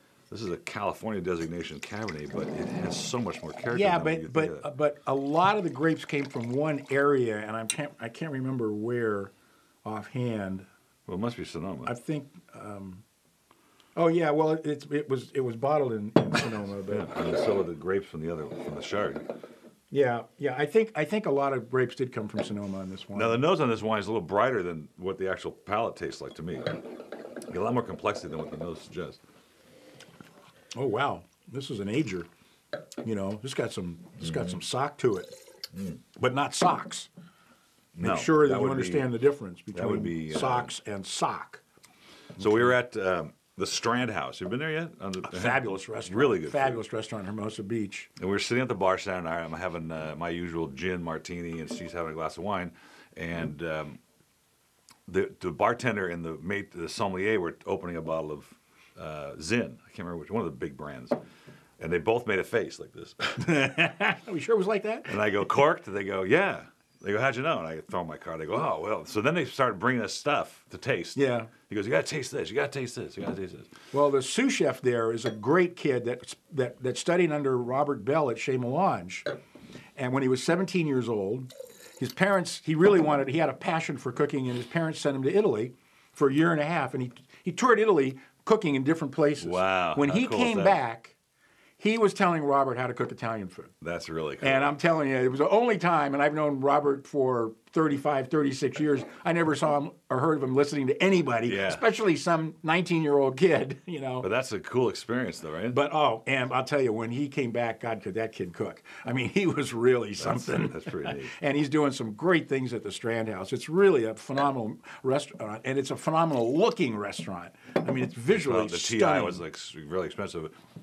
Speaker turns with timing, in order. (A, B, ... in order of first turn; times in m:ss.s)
0:00.3-0:04.6 A
0:03.7-0:09.3 B
0:09.8-0:10.7 B
0:11.1-0:11.9 A
0:11.8-0:13.0 B
0:14.0-0:17.1 B
0:16.9-0:19.2 A
0:19.9-0:23.4 B
0:23.1-0:26.8 A
0:27.5-0:29.2 A
0:30.7-0:32.3 B
0:33.0-0:35.3 B
0:36.2-0:37.1 B
0:37.9-0:39.1 A
0:38.0-0:41.6 B
0:39.7-0:40.7 A
0:42.4-0:46.8 A
0:45.2-0:48.1 B
0:48.2-0:54.0 A
0:55.1-1:01.2 A
1:01.8-1:03.4 A
1:03.4-1:05.2 B
1:05.1-1:13.7 A
1:11.2-1:11.5 B
1:13.9-1:19.3 B
1:20.0-1:31.2 B
1:29.4-1:30.8 A
1:31.8-1:33.7 B
1:33.8-1:34.7 A
1:34.4-1:44.3 B
1:41.4-1:41.8 A
1:44.2-1:45.8 A
1:45.7-1:59.4 B
1:50.2-1:51.3 A
1:58.3-2:00.5 A